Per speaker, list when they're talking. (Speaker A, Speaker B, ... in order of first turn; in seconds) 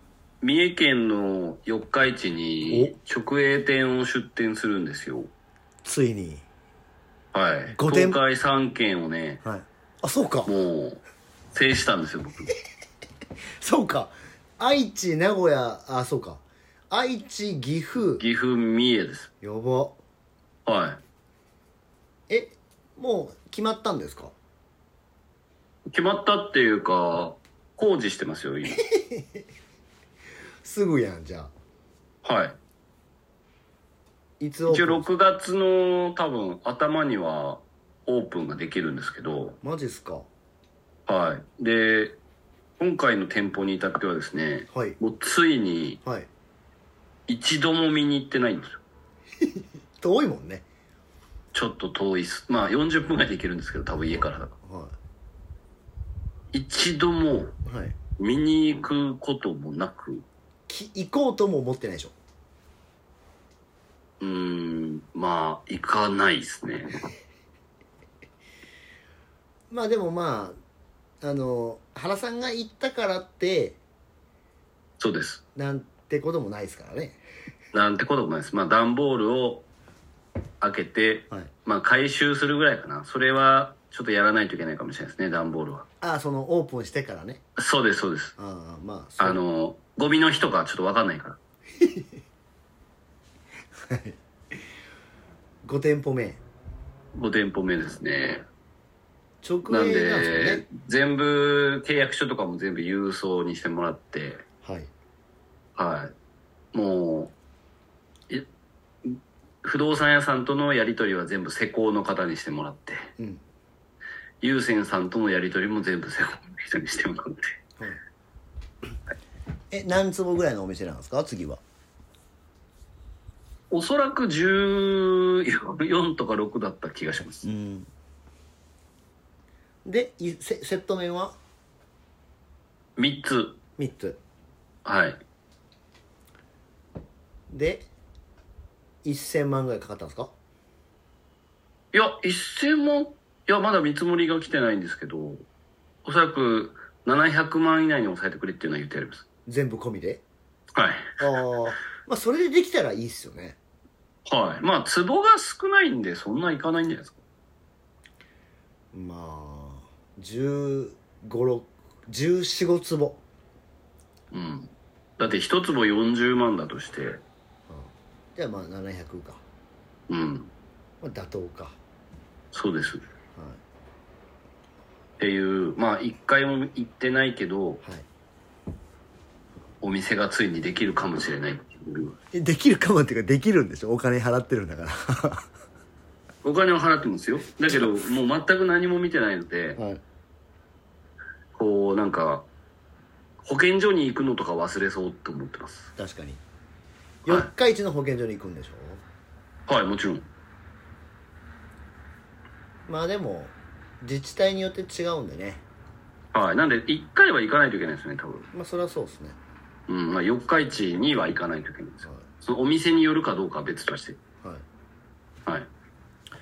Speaker A: 0.4-5.3, 7.3-9.4, 10.4-11.0, 11.5-12.5, 18.2-19.3, 20.6-21.0, 25.9-28.8, 32.2-32.6, 34.7-39.6, 41.1-42.2, 42.8-46.0, 47.3-48.8, 51.5-54.5, 56.5-57.5, 58.2-60.2, 64.2-67.0, 75.0-75.4, 77.7-79.7, 80.6-85.8, 87.6-88.3, 89.2-91.4, 97.1-98.4, 99.7-104.4, 105.8-106.1, 106.7-107.3, 109.0-113.1, 114.4-117.5, 123.7-127.5, 133.0-133.6, 134.8-135.2, 141.9-145.4, 146.0-149.2, 150.7-151.1, 154.3-157.2, 164.3-167.2, 170.1-170.5, 172.5-173.0, 175.2-177.8, 179.8-182.2, 186.4-189.8, 191.5-192.5, 193.4-195.9, 199.7-200.2, 206.3-208.4, 209.9-214.2
Speaker B: 2.7-2.9, 5.8-6.4, 7.7-8.2, 9.4-10.5, 13.6-18.2, 19.4-20.0, 22.3-24.3, 28.7-29.4, 30.6-31.5, 34.4-35.0, 39.6-40.3, 44.7-45.0, 49.4-50.6, 54.6-54.9, 57.6-58.0, 60.7-62.1, 69.7-70.5, 71.2-73.8, 75.5-77.2, 86.0-87.4, 88.4-89.4, 91.8-92.1, 93.8-94.2, 95.6-96.4, 99.4-100.6, 104.6-104.9, 119.7-121.6, 127.4-127.9, 129.8-131.3, 133.8-134.2, 137.5-137.9, 139.0-140.3, 149.4-150.2, 151.2-153.6, 158.9-163.2, 167.7-169.4, 171.0-171.8, 182.3-185.5, 189.8-190.0, 196.0-196.4, 197.2-199.0, 202.9-205.6, 208.5-209.4